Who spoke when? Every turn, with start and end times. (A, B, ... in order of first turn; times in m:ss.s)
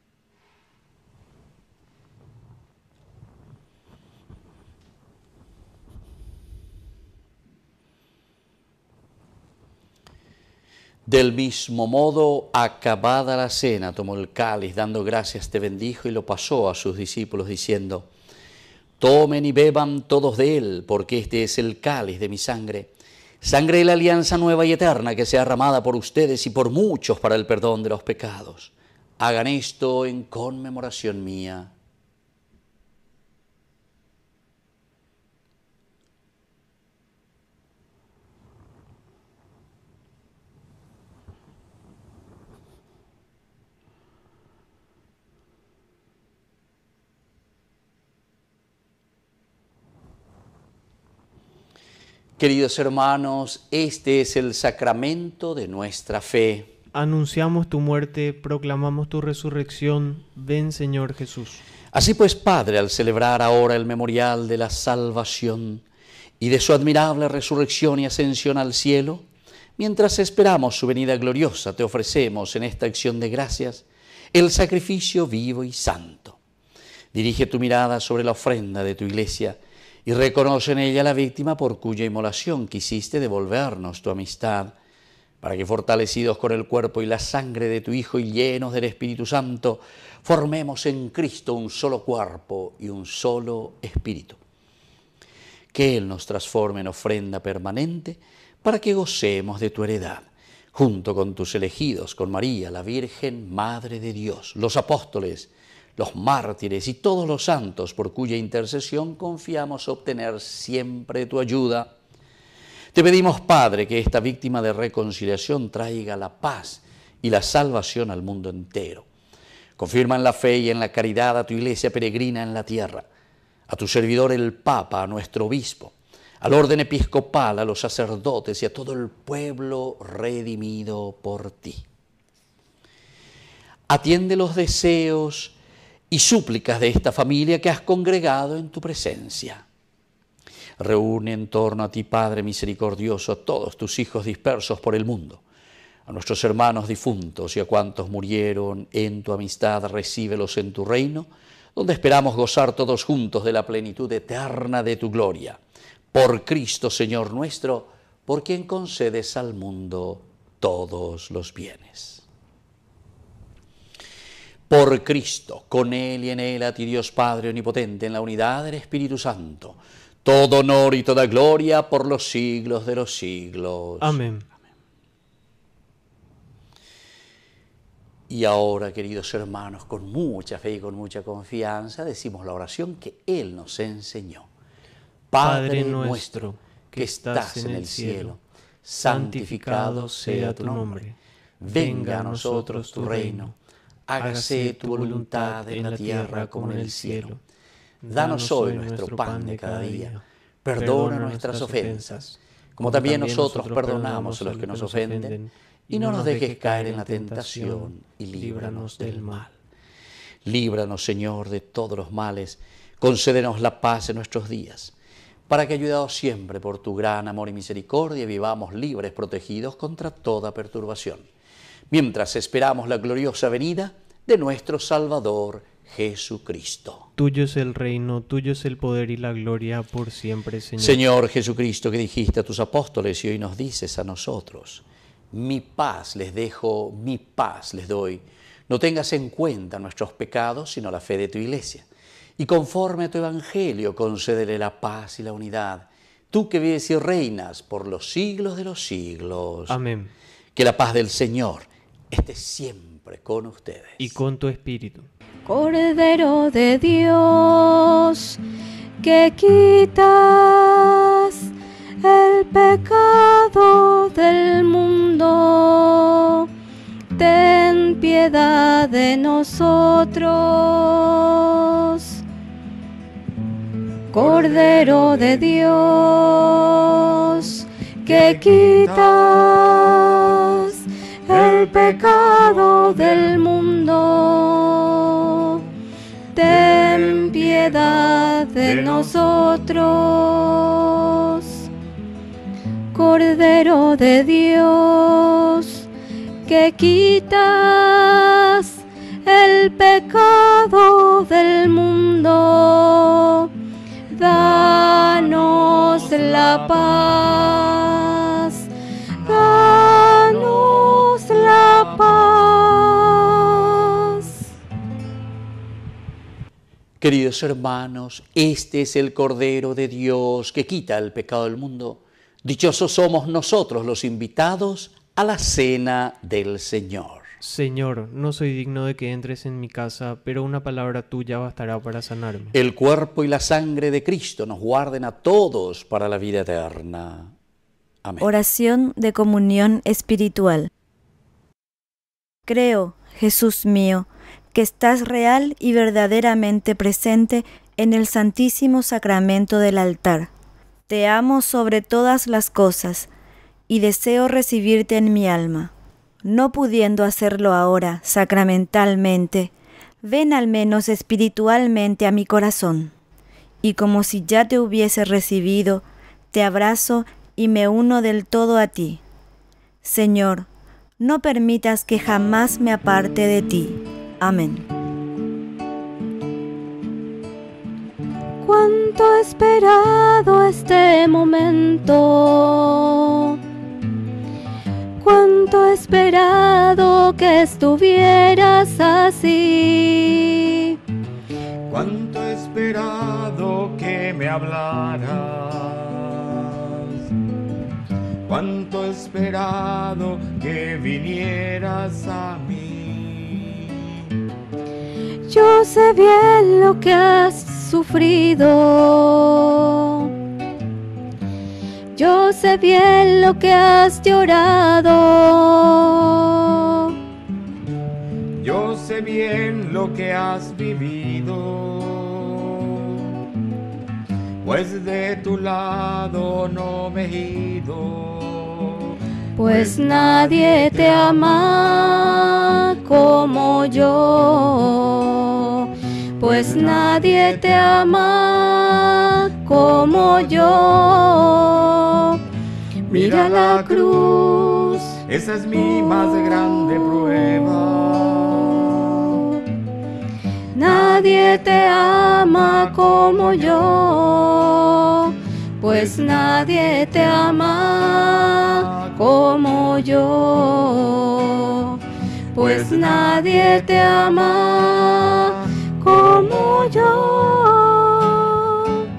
0:11.0-0:18.1 A
0:19.0-0:22.9 A
0:23.4-0:31.7 A
0:52.4-0:56.7 A
0:56.9-1:01.6 B
1:01.9-1:05.8 A
1:06.4-1:09.2 A
1:09.8-1:16.4 A
1:17.1-1:24.7 A
1:25.4-1:34.4 A
1:35.7-1:51.9 A
1:52.9-1:59.0 A
1:59.8-2:03.0 A
2:03.7-2:11.8 A
2:13.9-2:15.5 A
2:16.1-2:19.6 A
2:20.8-2:25.4 A
2:26.1-2:35.6 A
2:36.1-2:42.2 A
2:44.7-2:54.2 A
2:54.0-2:54.4 B
2:58.3-3:04.5 A
3:05.3-3:11.1 A
3:05.4-3:08.4 B
3:09.0-3:11.2 B
3:11.6-3:13.5 A
3:11.7-3:13.5 B
3:14.1-3:17.3 A
3:14.2-3:17.4 B
3:18.0-3:20.2 B
3:18.1-3:22.2 A
3:20.8-3:29.5 B
3:22.8-3:25.4 A
3:25.9-3:29.5 A
3:30.4-3:34.9 A
3:35.5-3:41.2 A
3:41.9-3:47.1 A
3:47.2-3:51.0 B
3:50.8-4:01.8 A
4:02.4-4:09.8 A
4:09.7-4:10.1 B
4:10.5-4:14.2 A
4:14.0-4:15.1 B
4:15.4-4:18.4 C
4:19.0-4:21.5 C
4:22.0-4:26.5 C
4:27.1-4:32.2 C
4:34.1-4:45.6 C
4:34.1-4:35.6 D
4:38.0-4:39.8 D
4:41.3-4:43.4 D
4:46.3-4:51.6 C
4:46.4-4:49.6 D
4:52.9-4:55.9 C
4:56.4-5:03.5 C
5:04.1-5:08.7 C
5:04.3-5:07.5 D
5:09.2-5:12.5 D
5:09.2-5:14.3 C
5:17.0-5:27.3 A
5:27.4-5:32.5 B
5:32.5-5:37.3 A
5:38.0-5:38.3 A
5:38.2-5:40.7 E
5:42.4-5:50.3 E
5:50.9-5:53.1 E
5:53.7-5:55.7 E
5:56.2-5:59.5 E
6:00.0-6:02.9 E
6:03.6-6:09.0 E
6:09.8-6:10.5 E
6:11.0-6:14.6 E
6:18.4-6:23.4 C
6:25.0-6:30.8 C
6:31.7-6:36.8 D
6:38.3-6:43.7 D
6:45.3-6:50.1 C
6:51.9-6:57.0 C
6:58.4-7:02.8 D
7:04.4-7:08.9 D
7:09.4-7:22.2 C
7:09.4-7:11.3 D
7:16.2-7:17.8 D
7:19.7-7:20.8 D
7:22.9-7:24.8 C
7:22.9-7:29.2 D
7:26.0-7:27.6 C
7:30.5-7:41.8 C
7:30.7-7:31.0 D
7:32.9-7:33.8 D
7:35.7-7:36.2 D
7:38.4-7:39.3 D
7:42.3-7:48.1 D
7:42.3-7:48.6 C